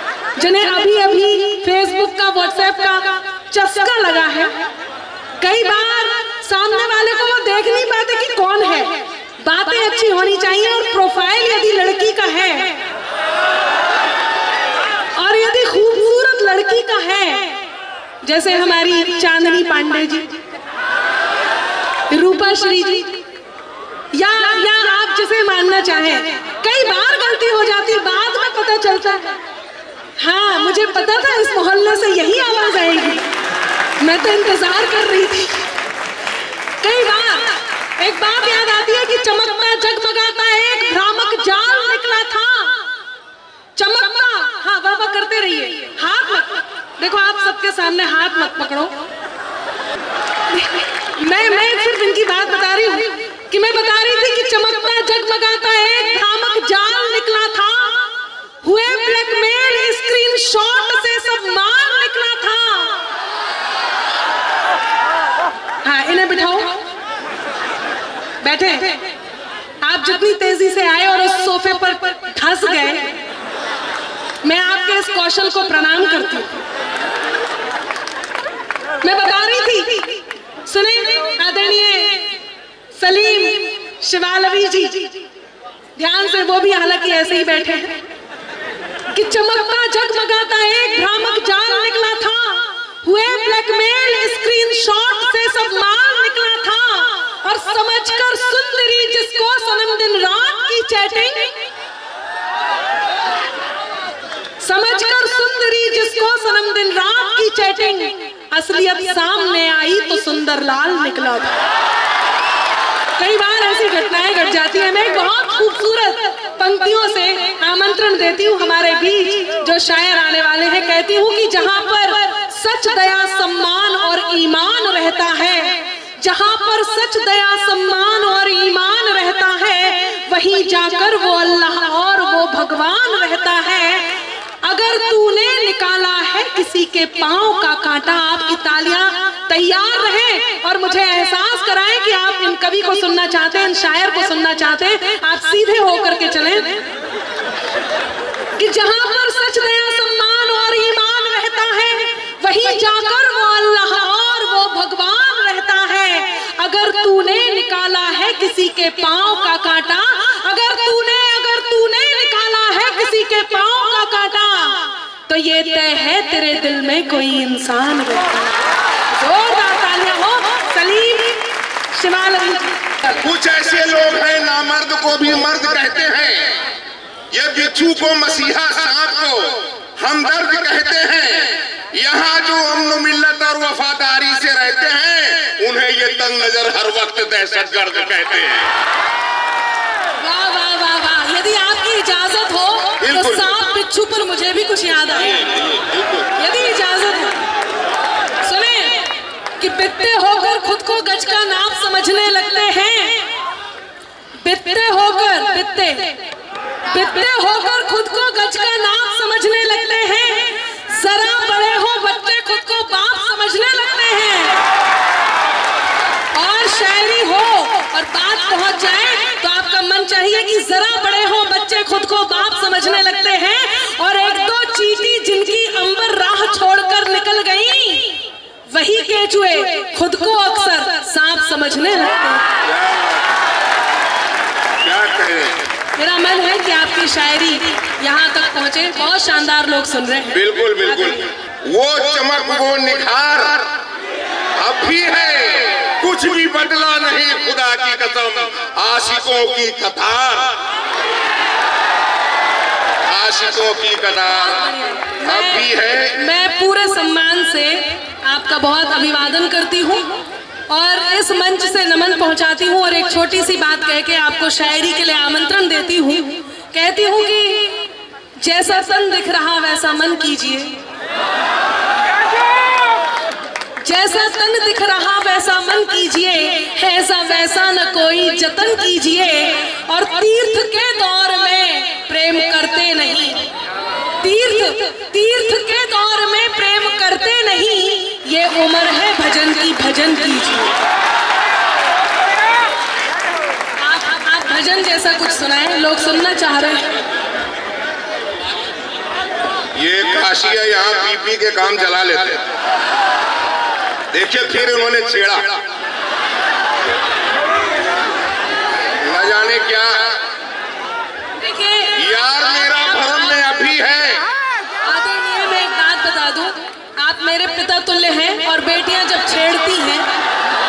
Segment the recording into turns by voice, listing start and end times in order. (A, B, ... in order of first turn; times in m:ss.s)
0:00.4-0:04.7 A
0:05.4-0:12.9 A
0:15.1-0:17.7 A
0:18.2-0:20.4 A
0:22.1-0:23.2 A
0:24.1-0:29.4 A
0:30.2-0:33.3 A
0:34.0-0:35.7 A
0:36.8-0:42.9 A
0:43.8-0:49.1 A
0:50.5-1:03.1 A
1:05.8-1:06.8 A
1:08.4-1:09.2 A
1:09.8-1:13.2 A
1:14.4-1:16.6 A
1:19.0-1:22.4 A
1:22.9-1:25.3 A
1:26.0-1:28.1 A
1:29.1-1:41.6 A
1:44.6-1:51.6 A
1:53.2-2:26.9 A
2:28.6-2:53.0 A
2:53.1-2:56.6 B
2:57.3-3:08.7 B
3:10.2-3:15.7 A
3:13.0-3:13.5 B
3:16.2-3:17.5 A
3:18.4-3:23.4 A
3:24.4-3:26.3 A
3:26.9-3:34.6 A
3:36.3-3:52.5 A
3:54.8-3:55.6 B
3:56.0-4:00.4 A
4:00.3-4:03.8 B
4:04.6-4:10.6 B
4:13.0-4:16.3 B
4:14.6-4:30.8 A
4:33.8-4:43.5 A
4:44.2-4:50.8 A
4:53.8-4:57.0 A
4:59.8-5:02.5 B
5:04.1-5:05.6 B
5:09.0-5:10.2 B
5:11.4-5:12.0 A
5:12.0-5:14.3 B
5:14.8-5:20.1 A